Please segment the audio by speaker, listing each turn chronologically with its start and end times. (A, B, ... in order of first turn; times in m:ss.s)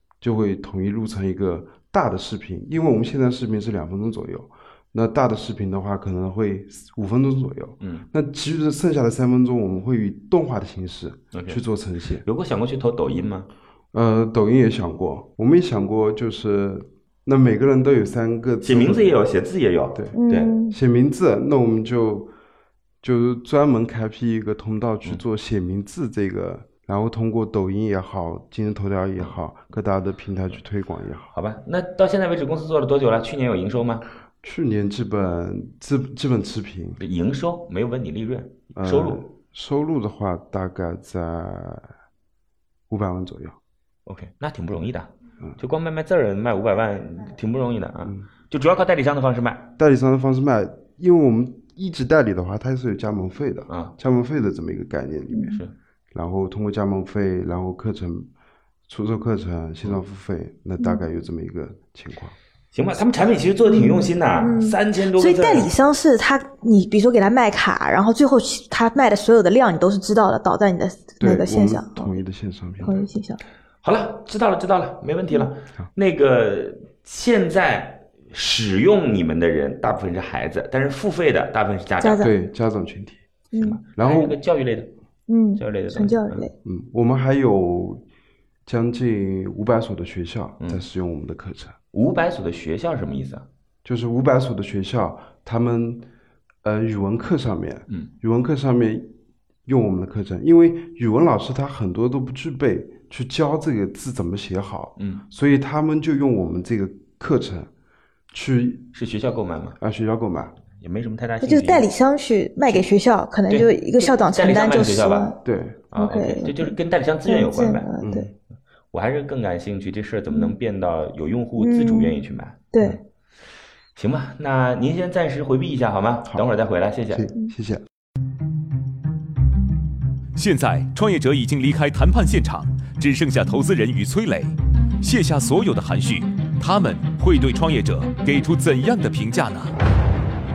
0:00.2-0:12.2 A
0:07.8-0:08.0 B
0:11.3-0:11.6 B
0:12.2-0:13.5 B
0:13.9-0:19.2 A
0:18.6-0:20.6 B
0:20.1-0:20.8 C
0:20.7-0:22.3 A
0:23.0-0:31.3 A
0:31.3-0:34.0 B
0:34.4-0:37.0 A
0:37.0-0:39.2 B
0:38.7-0:41.9 A
0:42.9-0:43.6 A
0:44.0-0:49.7 B
0:49.8-0:55.6 A
0:53.7-0:53.9 B
0:55.5-0:55.7 B
0:56.1-0:58.3 A
0:58.9-1:02.3 A
1:02.7-1:05.7 B
1:03.7-1:12.2 C
1:11.2-1:13.0 A
1:12.8-1:13.4 C
1:13.8-1:22.3 B
1:22.0-1:22.3 C
1:22.2-1:23.2 A
1:23.5-1:23.8 C
1:23.6-1:24.9 B
1:24.0-1:24.4 A
1:25.3-1:26.5 C
1:25.6-1:26.4 B
1:26.6-1:28.0 A
1:28.6-1:31.8 A
1:31.9-1:33.4 B
1:33.8-1:36.0 A
1:36.6-1:39.1 A
1:39.6-1:47.7 A
1:45.0-1:45.2 B
1:48.3-1:48.9 A
1:48.9-1:49.8 B
1:49.8-1:50.5 A
1:50.8-1:51.9 B
1:51.4-1:55.4 C
1:53.5-1:55.3 B
1:55.4-1:55.8 A
1:55.9-1:57.9 B
1:56.0-1:56.7 C
1:57.2-1:58.3 C
1:58.0-1:58.3 A
1:58.9-2:03.0 B
2:01.6-2:02.1 C
2:02.7-2:03.0 C
2:04.0-2:07.3 B
2:07.1-2:07.8 A
2:10.4-2:19.8 D